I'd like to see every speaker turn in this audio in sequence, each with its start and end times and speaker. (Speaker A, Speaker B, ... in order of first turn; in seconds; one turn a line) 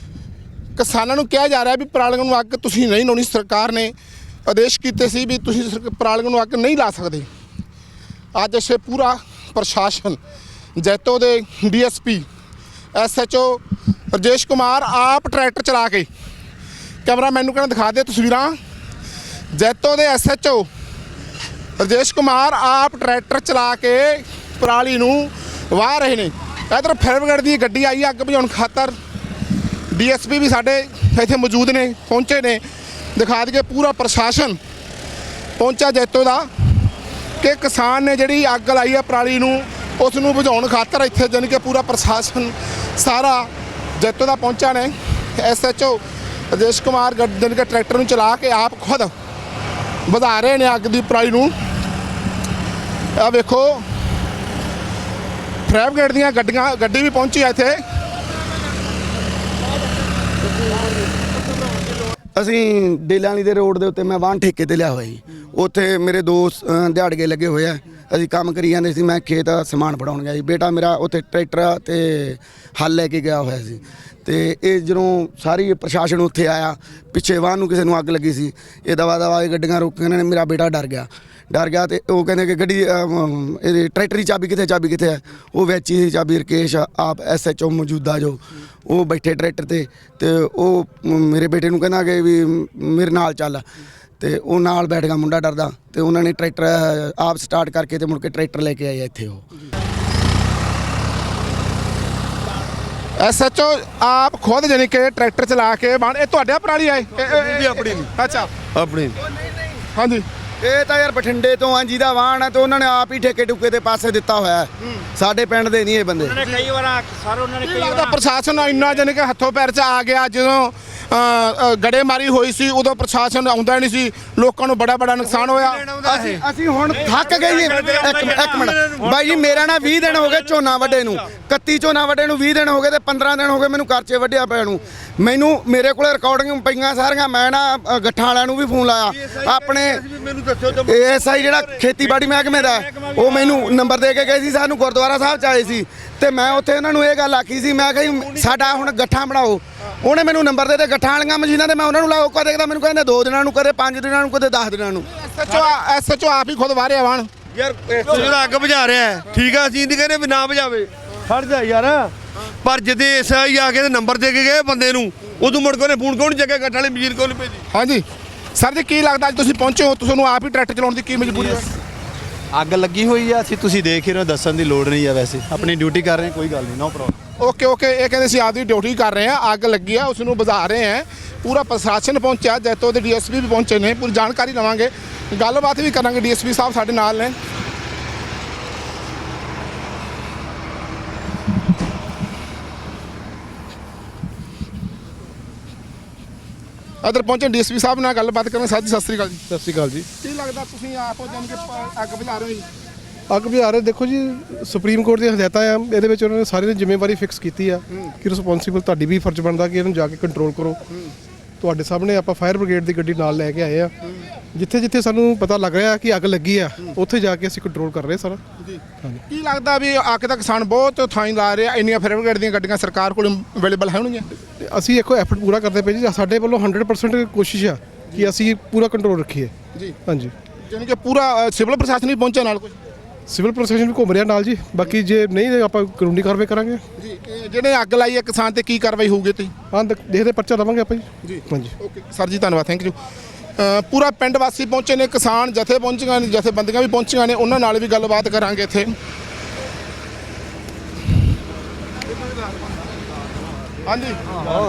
Speaker A: 0.8-4.0
Speaker A: 4.5-7.3
Speaker A: 8.3-10.2
Speaker A: 10.8-12.3
Speaker A: 12.9-16.1
Speaker A: 17.1-18.6
Speaker A: 19.5-20.7
Speaker A: 21.8-29.0
Speaker A: 29.9-32.6
Speaker A: 33.1-34.6
Speaker A: 35.6-36.5
Speaker A: 37.4-49.1
Speaker A: 50.1-51.5
Speaker A: 53.2-53.9
Speaker A: 55.7-57.8
Speaker B: 62.4-93.6
Speaker B: 94.2-99.4
Speaker A: 103.2-108.5
Speaker C: 108.7-109.1
Speaker A: 109.9-110.3
Speaker B: 110.6-116.3
Speaker D: 116.2-118.2
Speaker A: 117.6-125.8
Speaker D: 125.6-126.4
Speaker B: 126.0-140.1
Speaker D: 126.9-129.7
Speaker C: 140.1-140.5
Speaker B: 140.7-155.1
Speaker D: 142.0-143.7
Speaker A: 155.2-157.3
Speaker C: 157.6-162.1
Speaker C: 162.6-167.5
Speaker A: 167.7-171.7
Speaker E: 172.6-176.2
Speaker C: 176.0-176.7
Speaker E: 176.7-177.1
Speaker A: 177.4-187.4
Speaker A: 197.0-199.4
Speaker F: 199.5-200.1
Speaker A: 200.2-202.7
Speaker F: 203.3-210.8
Speaker F: 211.6-213.9
Speaker F: 214.5-218.4
Speaker A: 218.6-224.3
Speaker F: 219.0-219.2
Speaker F: 224.6-230.3
Speaker A: 230.6-232.8
Speaker F: 233.3-236.8
Speaker A: 237.0-239.5
Speaker F: 239.7-241.7
Speaker A: 241.2-243.0
Speaker A: 243.6-248.9
Speaker A: 253.9-254.2